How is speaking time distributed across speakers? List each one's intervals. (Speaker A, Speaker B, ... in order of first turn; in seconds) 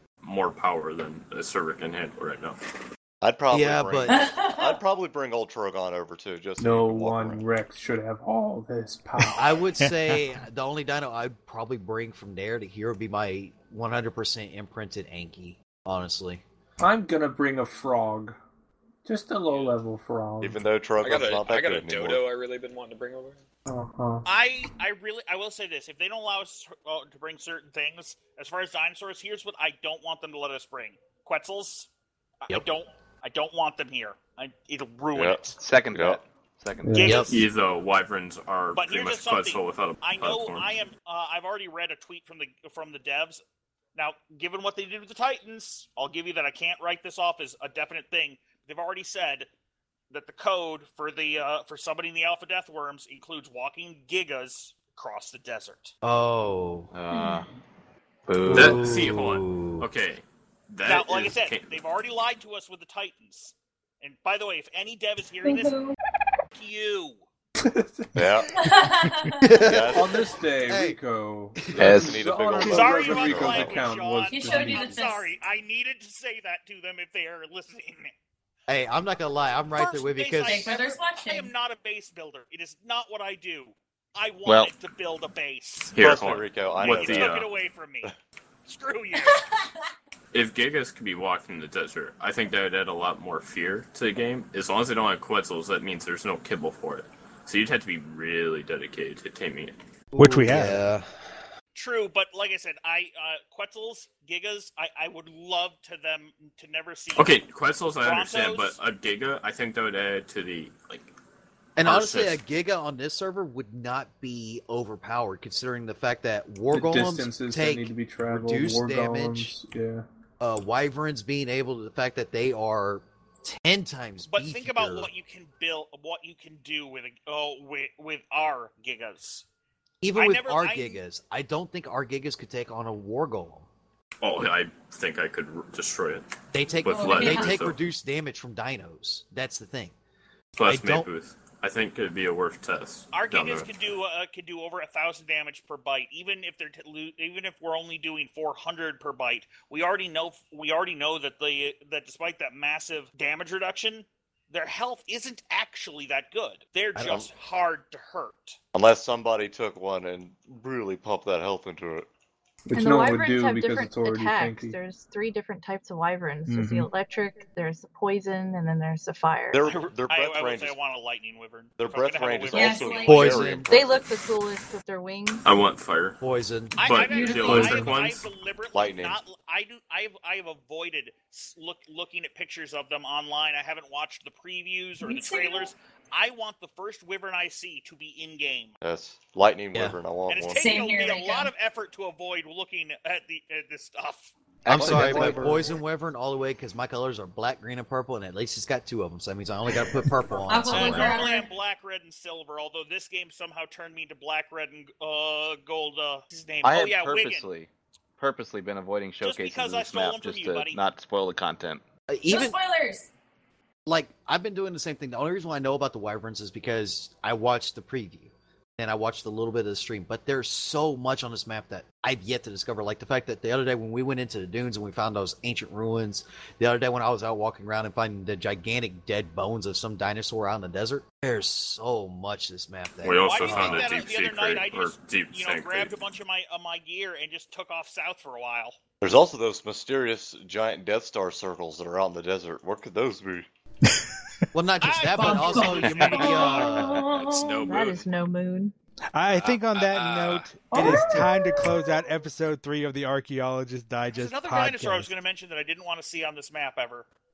Speaker A: 0.2-2.6, 37.2-40.7, 58.5-61.8, 85.9-87.5, 90.3-99.8, 107.2-111.1, 111.8-112.4, 134.2-136.2, 136.8-137.8, 140.6-143.7, 175.4-176.2, 176.8-178.3, 233.0-235.9, 249.7-250.3
Speaker B: 3.2-7.5, 20.4-22.2, 35.1-36.2, 68.2-68.6, 69.6-70.3, 71.8-74.0, 86.0-87.4, 157.0-157.3, 158.7-162.1, 169.5-170.8, 171.8-174.1, 178.8-179.2, 188.8-190.6, 194.7-195.6, 239.0-243.5
Speaker C: 3.5-4.2, 9.4-16.4, 37.0-37.4, 56.0-56.9, 58.5-59.9, 69.4-71.0, 71.6-71.9, 78.7-80.7, 100.1-101.1, 111.8-119.5, 120.4-125.1, 130.0-133.7, 136.5-139.9, 140.7-141.1, 173.1-173.7, 176.2-176.8, 194.7-201.3, 212.1-212.6, 213.9-233.9, 244.5-247.0
Speaker D: 4.1-4.8, 57.1-57.4, 65.4-66.0, 68.5-69.6, 74.3-75.3, 80.4-81.5, 89.2-89.7, 136.9-137.6, 172.5-173.4, 176.9-177.9, 185.0-185.7, 190.5-191.5, 200.5-201.5, 212.3-213.1, 245.2-247.6, 250.7-251.3
Speaker E: 6.6-9.4, 16.8-18.4, 19.1-20.6, 23.7-24.3, 36.8-37.2, 67.6-68.4, 69.3-75.0, 116.7-120.0, 162.7-164.8, 177.4-177.7, 194.7-195.7
Speaker F: 9.2-10.3, 100.2-100.8, 166.5-166.9, 249.1-255.1
Speaker G: 21.0-23.4, 245.9-248.1, 249.3-250.5
Speaker H: 24.3-31.9, 32.4-35.6, 36.9-37.5, 38.7-43.4, 44.0-49.5, 50.1-55.9, 60.9-65.8, 66.5-67.2, 72.6-78.1, 79.8-86.0, 86.8-88.1, 88.7-89.6, 101.8-107.4, 108.0-108.8, 124.3-129.4, 130.2-131.0, 143.1-158.6, 170.1-173.3, 176.8-188.8, 190.3-194.3, 200.7-207.5, 209.2-210.8, 233.2-238.8, 244.8-246.6, 254.1-257.1
Speaker I: 35.6-37.0, 56.9-57.5, 58.3-59.0, 71.8-72.2, 84.5-84.7, 194.7-195.8, 206.6-211.8
Speaker J: 162.7-169.7, 173.7-175.5, 247.6-248.7